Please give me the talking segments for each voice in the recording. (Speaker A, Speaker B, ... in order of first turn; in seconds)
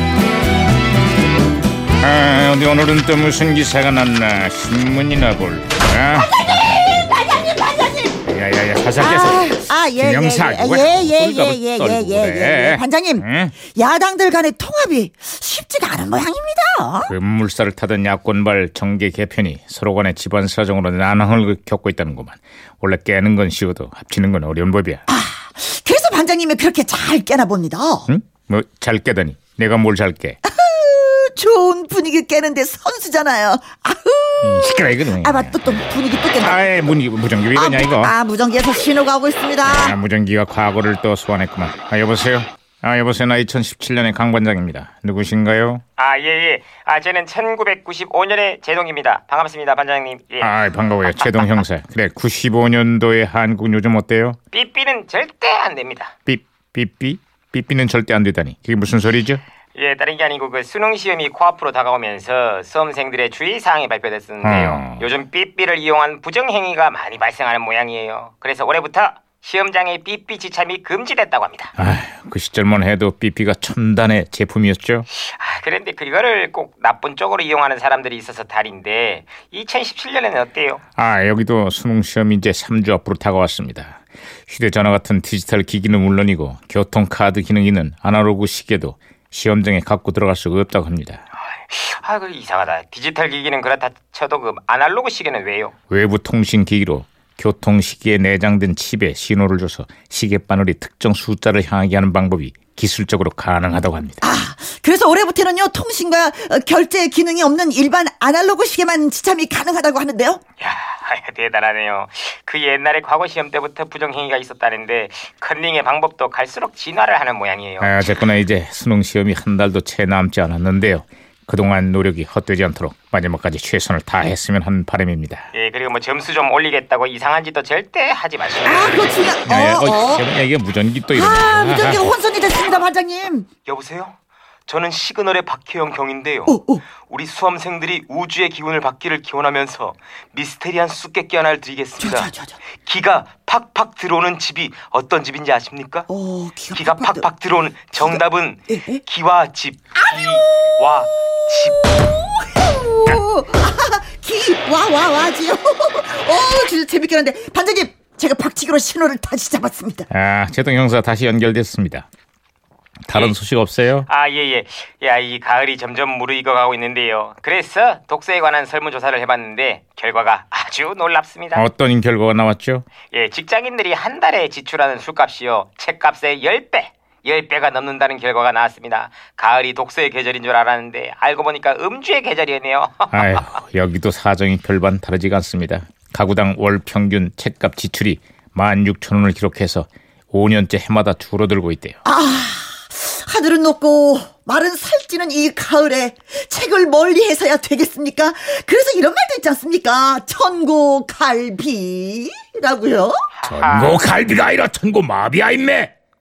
Speaker A: 2.0-6.3, 8.2-13.6, 17.1-25.0, 28.1-30.4, 34.4-38.1, 39.6-45.8, 50.4-54.4, 56.3-59.4, 64.4-65.1, 71.8-75.1, 81.0-91.2, 95.9-104.2, 117.8-125.5, 129.4-132.1, 160.1-162.1, 163.1-164.1, 171.5-172.8, 183.1-192.0, 203.5-205.9
Speaker B: 6.1-8.2, 8.9-17.1, 25.1-28.1, 30.4-36.9, 37.5-40.0, 104.2-110.4, 128.6-130.2, 131.1-133.5, 136.5-136.8, 142.0-142.6, 146.1-147.3, 148.0-149.0, 149.9-150.4, 152.5-160.1, 192.0-203.2
Speaker C: 46.0-51.6, 54.5-56.1, 59.7-71.7, 75.1-80.8, 91.5-95.7, 110.6-118.2, 125.5-129.2, 133.6-134.1, 134.7-146.1, 146.7-152.0, 164.0-171.7, 173.1-183.4, 203.3-204.1